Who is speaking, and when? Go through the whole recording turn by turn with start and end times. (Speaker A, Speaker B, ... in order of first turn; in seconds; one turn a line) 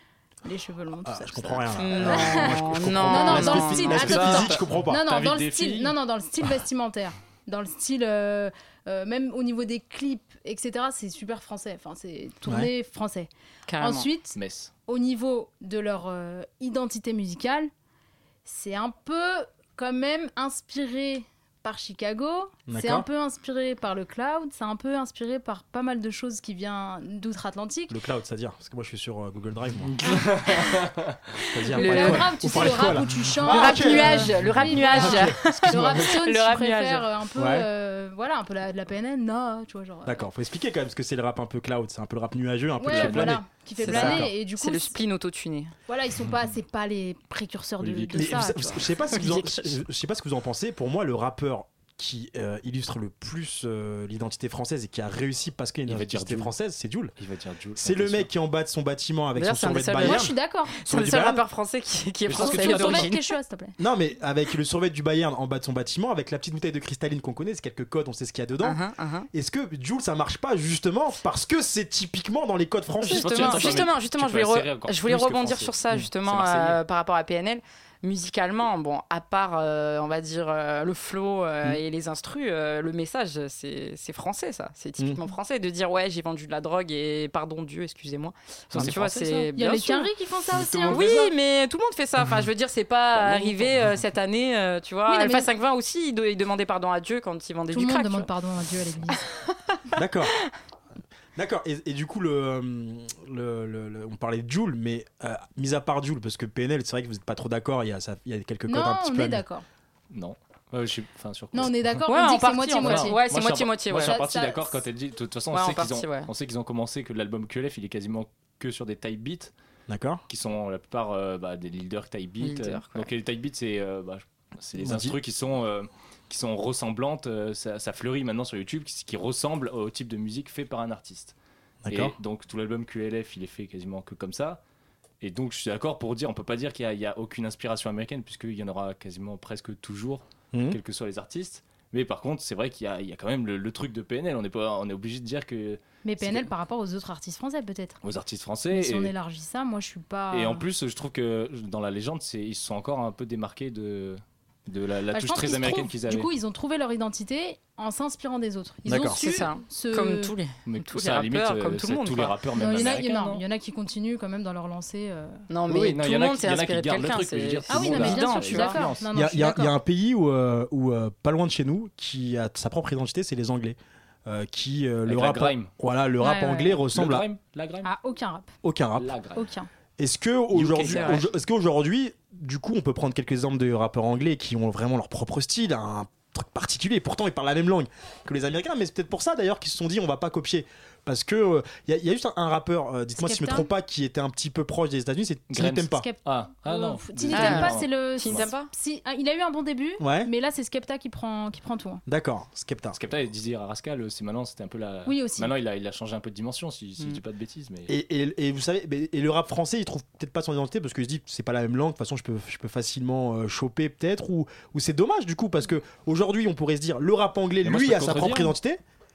Speaker A: 0.4-14.3
Speaker B: 1.0-5.0
Speaker C: 1.8-4.0
Speaker D: 3.9-5.9
Speaker C: 13.7-14.1
Speaker D: 14.3-14.7
Speaker A: 14.9-17.7
Speaker A: 18.4-27.9
Speaker B: 22.7-23.1
Speaker B: 27.9-29.9
Speaker D: 29.8-31.1
Speaker B: 31.5-36.0
Speaker A: 31.7-40.2
Speaker C: 31.8-32.3
Speaker C: 33.5-37.1
Speaker B: 37.4-37.7
Speaker B: 40.0-44.3
Speaker A: 42.8-45.0
Speaker D: 42.9-43.4
Speaker C: 43.8-45.7
Speaker A: 45.9-48.7
Speaker D: 47.8-48.8
Speaker B: 48.1-57.1
Speaker C: 49.1-49.7
Speaker D: 55.9-56.5
Speaker D: 57.2-58.3
Speaker B: 57.8-60.3
Speaker C: 59.4-63.3
Speaker A: 60.0-60.8
Speaker B: 60.9-61.4
Speaker D: 62.2-63.1
Speaker A: 62.4-63.8
Speaker B: 63.8-68.8
Speaker C: 68.6-69.3
Speaker B: 69.3-73.8
Speaker C: 73.0-90.1
Speaker D: 73.0-76.8
Speaker D: 88.7-89.5
Speaker A: 89.2-91.1
Speaker D: 90.5-91.3
Speaker C: 90.9-98.3
Speaker D: 93.1-93.9
Speaker A: 95.1-95.5
Speaker A: 97.7-99.2
Speaker B: 100.0-100.3
Speaker B: 101.3-109.4
Speaker A: 108.7-109.6
Speaker D: 110.1-112.0
Speaker A: 111.5-113.2
Speaker C: 112.1-114.6
Speaker D: 112.8-119.5
Speaker A: 114.0-114.4
Speaker C: 115.5-116.3
Speaker B: 119.9-120.2
Speaker D: 120.3-131.3
Speaker C: 122.4-123.1
Speaker B: 124.8-125.2
Speaker B: 131.8-132.1
Speaker D: 131.9-134.6
Speaker D: 135.2-146.5
Speaker B: 140.5-140.8
Speaker A: 146.0-148.0
Speaker D: 148.0-149.1
Speaker A: 148.7-150.6
Speaker D: 150.3-156.3
Speaker A: 155.1-160.3
Speaker B: 158.8-159.2
Speaker C: 159.2-162.9
Speaker D: 160.7-163.4
Speaker A: 162.6-165.4
Speaker C: 165.5-168.8
Speaker D: 165.7-169.0
Speaker A: 167.7-169.7
Speaker B: 169.1-177.2
Speaker D: 175.1-175.7
Speaker A: 176.2-176.8
Speaker D: 176.9-177.9
Speaker A: 177.8-178.5
Speaker B: 178.6-179.1
Speaker D: 179.0-179.4
Speaker A: 179.3-179.7
Speaker B: 180.0-196.1
Speaker D: 180.5-181.2
Speaker C: 180.8-181.2
Speaker A: 193.2-193.7
Speaker D: 195.5-198.5
Speaker A: 195.9-202.0
Speaker C: 197.3-198.7
Speaker B: 200.0-200.3
Speaker B: 202.1-203.0
Speaker D: 202.9-207.9
Speaker A: 205.1-205.5
Speaker B: 207.9-218.8
Speaker D: 217.6-218.5